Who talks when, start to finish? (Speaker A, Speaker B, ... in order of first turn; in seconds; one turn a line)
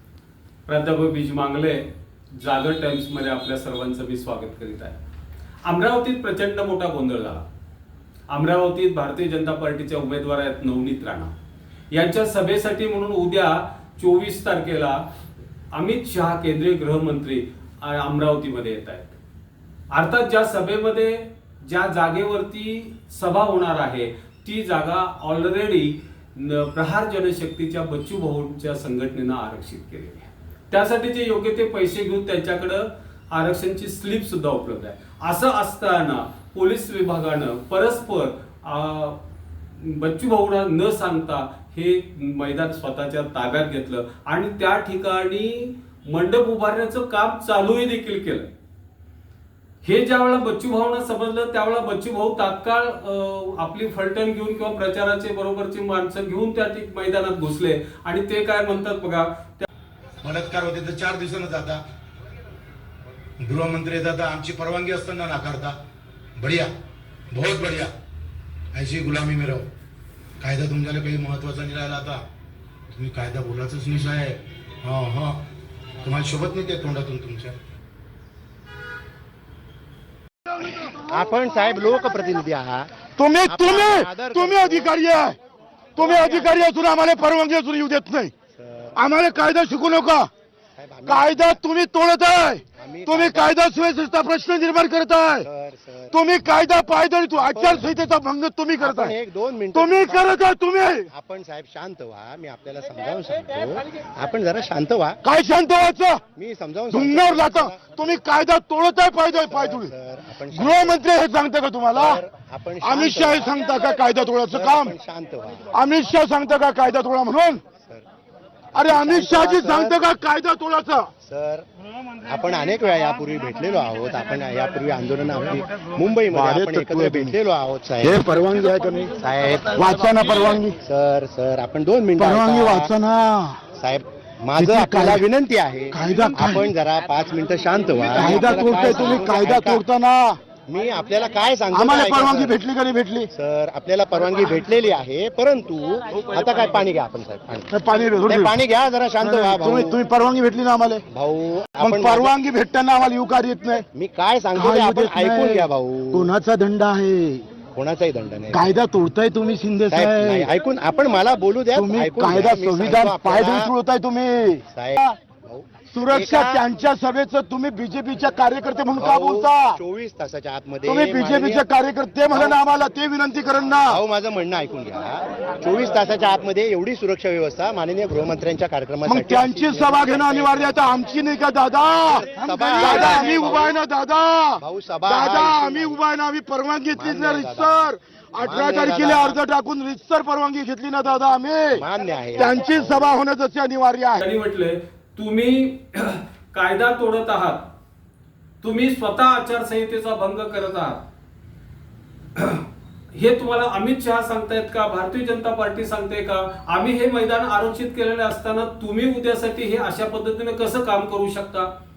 Speaker A: 0.7-1.8
Speaker A: 2.4-5.0
Speaker A: 5.6-7.5
Speaker A: 8.3-11.3
Speaker A: 11.9-15.0
Speaker A: 15.7-19.1
Speaker A: 19.9-39.2
Speaker A: 39.8-48.5
Speaker A: 49.8-59.7
Speaker B: 60.2-60.9
Speaker C: 60.3-61.8
Speaker B: 63.4-65.6
Speaker C: 63.5-65.7
Speaker B: 67.3-67.7
Speaker C: 67.3-67.9
Speaker B: 68.8-69.1
Speaker C: 68.8-69.6
Speaker B: 70.4-72.2
Speaker C: 70.5-71.3
Speaker B: 73.0-74.3
Speaker C: 73.0-74.3
Speaker B: 74.8-75.4
Speaker C: 74.9-75.3
Speaker B: 76.0-77.5
Speaker C: 76.1-77.5
Speaker D: 80.9-85.0
Speaker C: 83.2-85.4
Speaker C: 86.0-88.3
Speaker D: 86.0-86.5
Speaker D: 88.6-89.0
Speaker C: 89.0-90.3
Speaker D: 90.8-91.5
Speaker C: 91.1-95.5
Speaker D: 92.8-93.6
Speaker D: 95.4-96.2
Speaker C: 96.1-99.2
Speaker D: 97.4-98.1
Speaker D: 98.8-100.4
Speaker C: 99.7-101.1
Speaker D: 101.1-105.2
Speaker C: 105.2-106.2
Speaker D: 106.3-107.9
Speaker C: 106.9-109.9
Speaker D: 109.4-111.0
Speaker C: 110.5-112.2
Speaker D: 111.9-113.6
Speaker C: 112.8-114.9
Speaker D: 114.5-115.7
Speaker C: 115.7-117.6
Speaker D: 118.7-120.1
Speaker C: 118.7-121.1
Speaker D: 121.2-121.7
Speaker D: 122.2-128.4
Speaker C: 126.3-127.3
Speaker C: 128.0-129.2
Speaker D: 129.2-129.9
Speaker C: 129.7-130.8
Speaker D: 130.8-132.9
Speaker C: 132.2-133.6
Speaker D: 133.8-139.8
Speaker C: 134.6-135.2
Speaker C: 135.9-136.6
Speaker C: 138.1-140.4
Speaker D: 140.7-142.6
Speaker C: 141.7-143.3
Speaker D: 143.3-147.7
Speaker C: 147.7-148.6
Speaker D: 148.2-150.0
Speaker C: 149.2-151.0
Speaker D: 151.1-152.3
Speaker C: 151.8-153.8
Speaker D: 153.9-156.3
Speaker C: 154.6-157.5
Speaker D: 157.7-158.8
Speaker C: 158.5-160.5
Speaker D: 159.9-163.7
Speaker C: 161.7-165.2
Speaker D: 164.7-166.7
Speaker C: 165.9-169.8
Speaker D: 169.0-171.7
Speaker C: 170.9-174.0
Speaker D: 172.3-172.6
Speaker D: 173.8-180.9
Speaker C: 179.1-191.8
Speaker D: 182.1-183.8
Speaker D: 184.6-186.0
Speaker D: 186.9-189.4
Speaker D: 191.7-193.1
Speaker C: 192.4-194.2
Speaker A: 194.2-197.7
Speaker A: 198.6-201.0
Speaker A: 202.4-211.7